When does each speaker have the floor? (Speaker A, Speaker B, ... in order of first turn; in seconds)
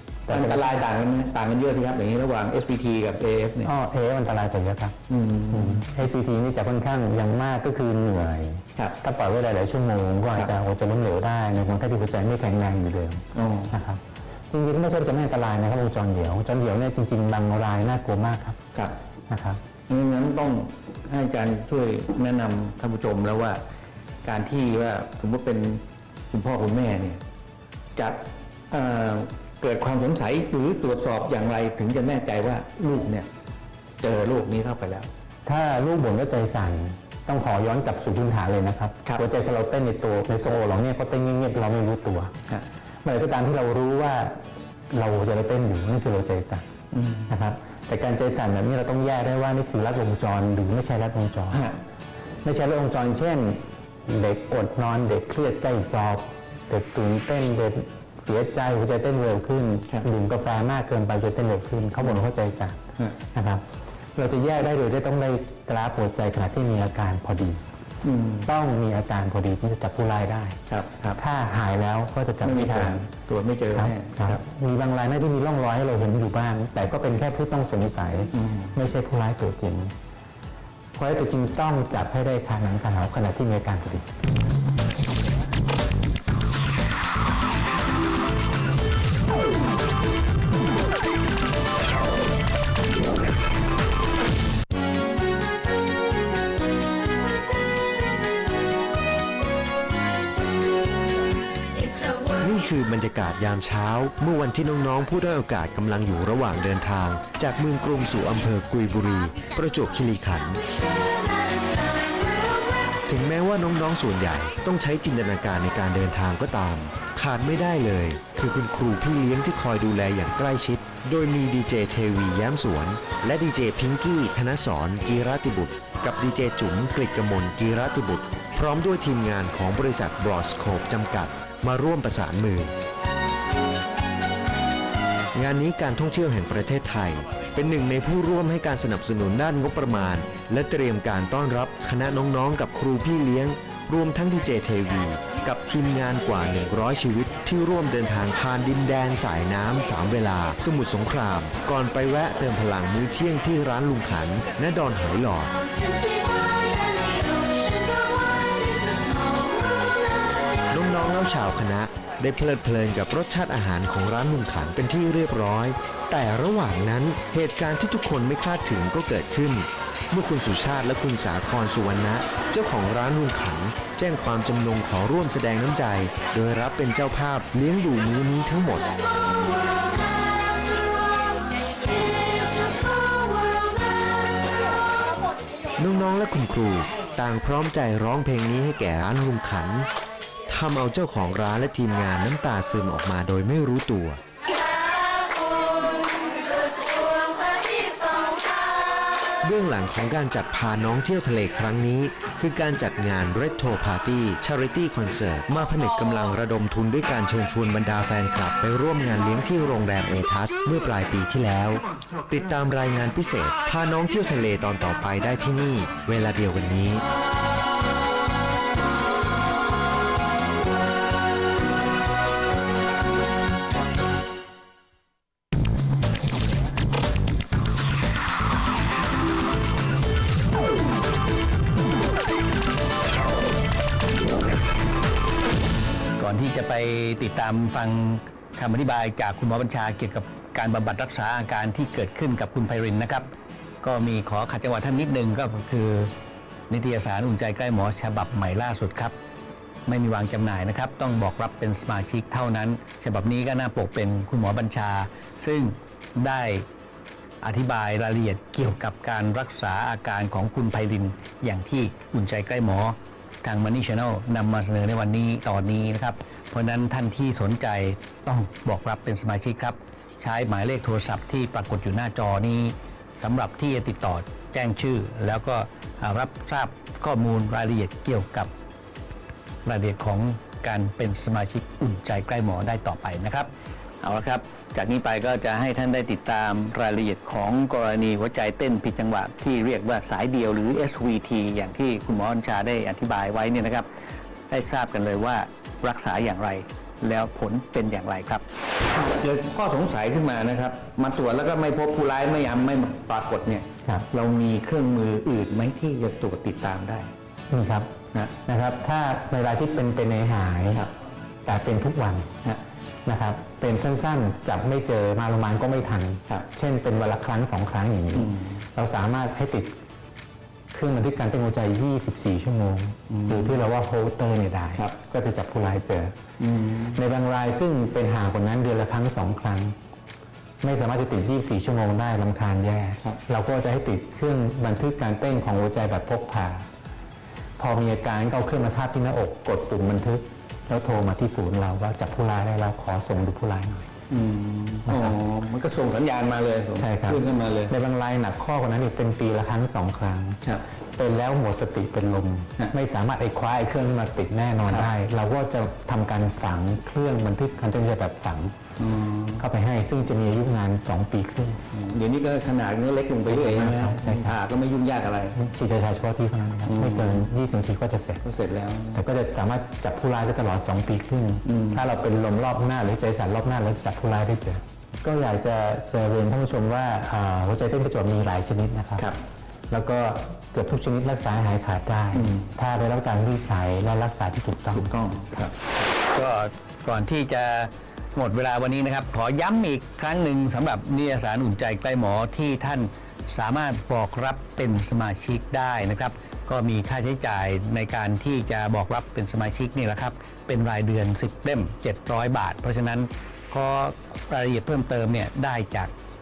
Speaker A: 0.3-0.8, 3.6-5.0, 5.5-18.6, 19.3-19.6, 35.5-42.3, 43.0-46.6, 47.3-51.6, 52.4-62.8, 63.3-63.6, 64.1-67.6, 68.5-70.6, 71.2-73.1, 73.7-79.9, 80.9-84.1, 307.5-307.9, 308.4-310.9, 311.4-312.3, 313.1-319.7, 320.7-326.1, 326.9-329.8, 330.6-336.6, 337.6-343.9, 344.9-345.2, 346.7-350.4, 351.0-358.6, 359.4-361.6, 363.3-364.3, 365.4-368.2, 368.9-379.1, 379.7-384.9
Speaker B: 0.3-3.7, 5.1-6.0, 13.3-13.7, 19.9-23.6, 24.2-27.2, 27.9-33.3, 34.0-35.1, 46.9-47.3, 51.5-51.8, 62.0-62.2, 68.0-68.5, 70.7-71.2, 72.4-74.4, 78.3-78.7, 236.2-243.3, 243.8-246.1, 246.7-249.1, 249.9-256.7, 257.4-278.5, 279.6-283.5, 284.0-293.9, 294.5-298.4, 299.0-307.1, 318.1-318.5, 323.1-323.6, 326.4-327.0, 344.1-347.7, 358.8-359.4, 361.7-365.4, 366.6-367.3, 368.2-369.0, 371.4-371.8, 382.1-382.5, 384.7-405.9
Speaker C: 102.4-110.6, 113.1-132.7, 135.3-155.5, 160.7-179.0, 185.8-189.9, 190.5-194.2, 199.4-217.0